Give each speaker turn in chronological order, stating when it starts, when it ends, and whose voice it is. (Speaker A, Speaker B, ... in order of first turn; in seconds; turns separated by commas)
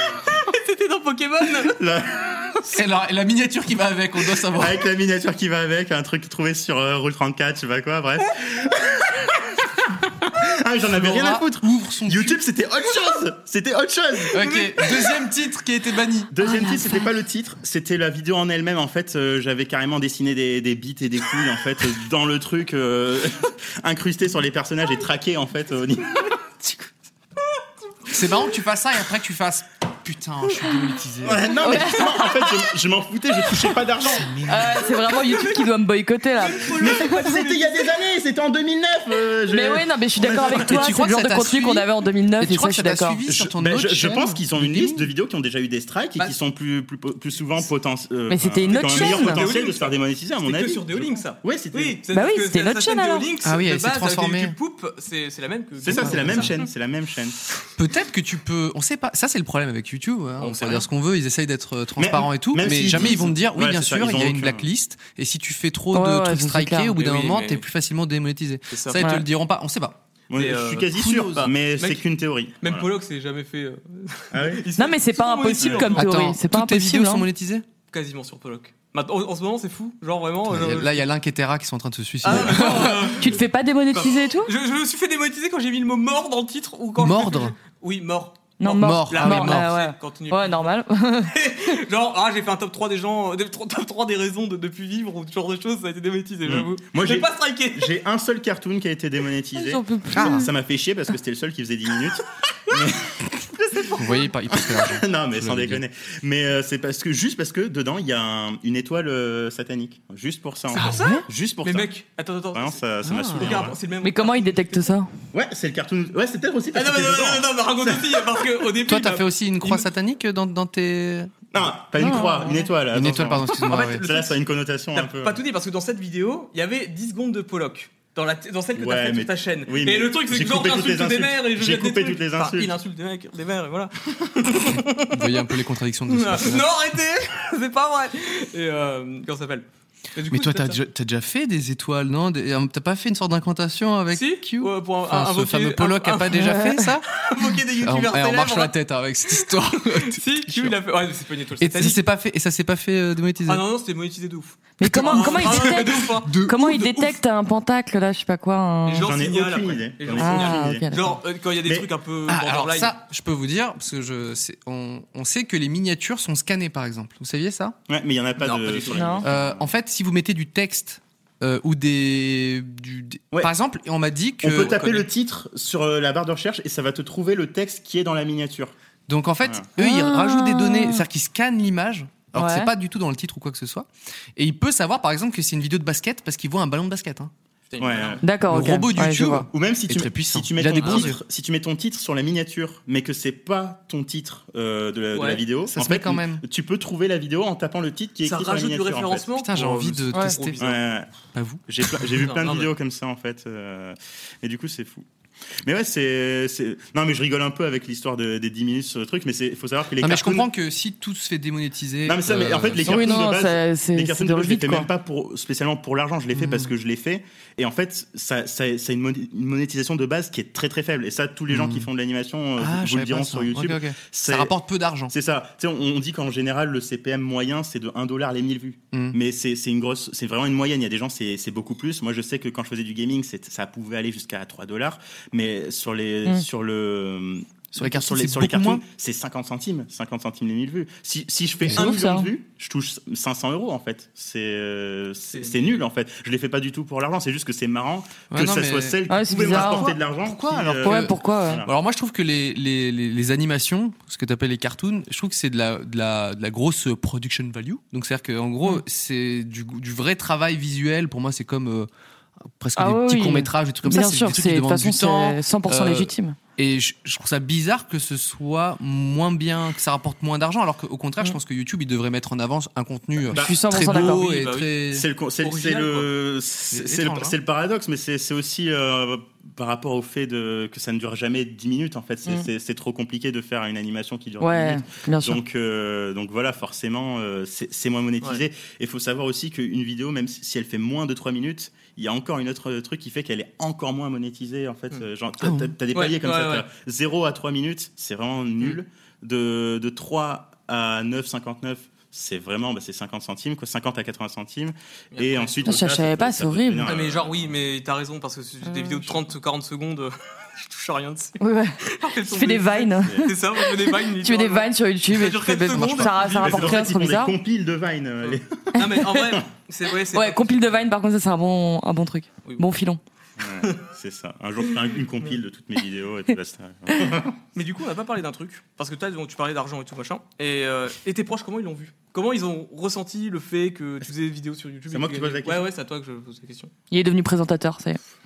Speaker A: 0.2-1.8, Speaker B: 1.6-2.8, Speaker C: 2.7-4.8, Speaker B: 4.5-14.9, Speaker C: 10.9-12.4, Speaker C: 14.3-16.3, Speaker B: 16.3-26.9, Speaker D: 16.4-17.0, Speaker C: 28.1-31.9, Speaker B: 31.2-34.7, Speaker D: 31.6-32.6, Speaker D: 34.4-37.1, Speaker A: 35.1-35.7, Speaker A: 36.3-37.9, Speaker B: 36.7-41.0, Speaker D: 39.5-43.2, Speaker C: 40.6-41.9, Speaker C: 42.4-45.1, Speaker B: 43.2-52.0, Speaker D: 48.3-49.4, Speaker A: 48.7-56.7, Speaker D: 52.1-53.3, Speaker C: 53.4-54.5, Speaker B: 55.8-57.4, Speaker C: 56.0-56.5, Speaker C: 57.8-70.0, Speaker A: 60.4-60.9, Speaker B: 62.0-64.7, Speaker D: 65.9-66.9, Speaker A: 66.9-67.6, Speaker A: 68.7-69.1, Speaker B: 70.3-72.9, Speaker A: 70.3-71.0, Speaker C: 70.9-71.5, Speaker A: 71.8-72.0, Speaker A: 72.6-76.1, Speaker B: 74.3-74.7, Speaker D: 74.8-77.2, Speaker C: 75.8-77.6, Speaker A: 77.9-81.1, Speaker C: 80.5-83.2, Speaker A: 82.2-83.4, Speaker D: 83.2-84.5, Speaker A: 83.9-97.9, Speaker C: 87.0-87.5, Speaker D: 88.6-91.3, Speaker C: 88.6-89.7, Speaker B: 96.5-111.9, Speaker D: 99.5-100.5, Speaker C: 100.1-100.5, Speaker C: 103.9-105.8, Speaker A: 110.8-112.8, Speaker D: 110.8-111.2, Speaker B: 112.5-113.8, Speaker C: 113.0-113.7, Speaker A: 113.3-114.8, Speaker D: 114.0-115.1, Speaker B: 115.3-118.2, Speaker A: 116.7-119.9, Speaker C: 118.8-121.3, Speaker B: 121.5-125.4, Speaker D: 122.0-122.7, Speaker C: 122.9-124.0, Speaker A: 123.5-124.4, Speaker A: 124.9-135.5, Speaker B: 128.8-132.7, Speaker C: 135.1-136.7, Speaker A: 136.1-140.8, Speaker C: 140.3-147.2, Speaker A: 144.1-146.4, Speaker D: 146.4-146.8, Speaker A: 147.1-148.7, Speaker C: 147.8-150.8, Speaker A: 149.3-152.0, Speaker C: 151.6-153.6, Speaker A: 153.4-157.2, Speaker D: 154.8-159.1, Speaker C: 154.8-156.6, Speaker A: 158.8-163.0, Speaker B: 159.0-160.9, Speaker D: 160.2-161.1, Speaker C: 162.3-167.8, Speaker B: 167.9-169.7, Speaker A: 168.4-169.2, Speaker D: 168.9-169.2, Speaker C: 169.2-174.8, Speaker B: 174.4-178.7, Speaker A: 174.5-175.1, Speaker C: 179.1-187.3, Speaker B: 179.4-179.7, Speaker D: 179.8-181.0, Speaker D: 182.3-182.7, Speaker A: 187.7-188.2, Speaker B: 187.8-188.3, Speaker D: 188.2-189.5, Speaker C: 188.5-191.2, Speaker B: 189.5-199.3, Speaker A: 190.8-191.2, Speaker A: 195.1-195.4, Speaker C: 195.7-196.4, Speaker A: 198.2-200.8, Speaker C: 199.4-200.5, Speaker B: 200.6-201.1, Speaker C: 201.3-202.1, Speaker B: 201.7-205.1, Speaker A: 202.2-202.7, Speaker B: 205.6-210.5, Speaker C: 210.0-213.2, Speaker B: 212.0-224.5, Speaker D: 212.8-214.9, Speaker C: 216.3-216.7, Speaker C: 221.5-221.9, Speaker C: 222.6-225.1, Speaker B: 225.1-251.7, Speaker C: 228.9-229.2, Speaker C: 237.7-238.8, Speaker D: 241.7-242.3, Speaker A: 245.3-245.7, Speaker C: 248.3-261.9, Speaker D: 249.1-249.9, Speaker D: 250.8-251.6, Speaker C: 262.6-275.1, Speaker D: 262.8-266.4, Speaker D: 273.3-274.2, Speaker B: 273.3-274.0, Speaker A: 273.8-274.8, Speaker B: 274.9-307.5, Speaker A: 275.4-276.1, Speaker C: 276.7-277.4, Speaker D: 284.4-285.4, Speaker C: 295.4-295.7, Speaker A: 295.9-296.6, Speaker A: 305.1-305.6, Speaker D: 305.6-306.9, Speaker A: 306.8-316.9, Speaker D: 308.6-309.0, Speaker D: 311.4-317.3, Speaker B: 313.0-313.3, Speaker B: 315.7-319.4, Speaker A: 318.2-320.8, Speaker D: 320.1-323.0, Speaker B: 323.4-327.4, Speaker A: 325.0-325.3, Speaker A: 327.5-336.7, Speaker B: 334.9-335.6, Speaker D: 336.9-338.0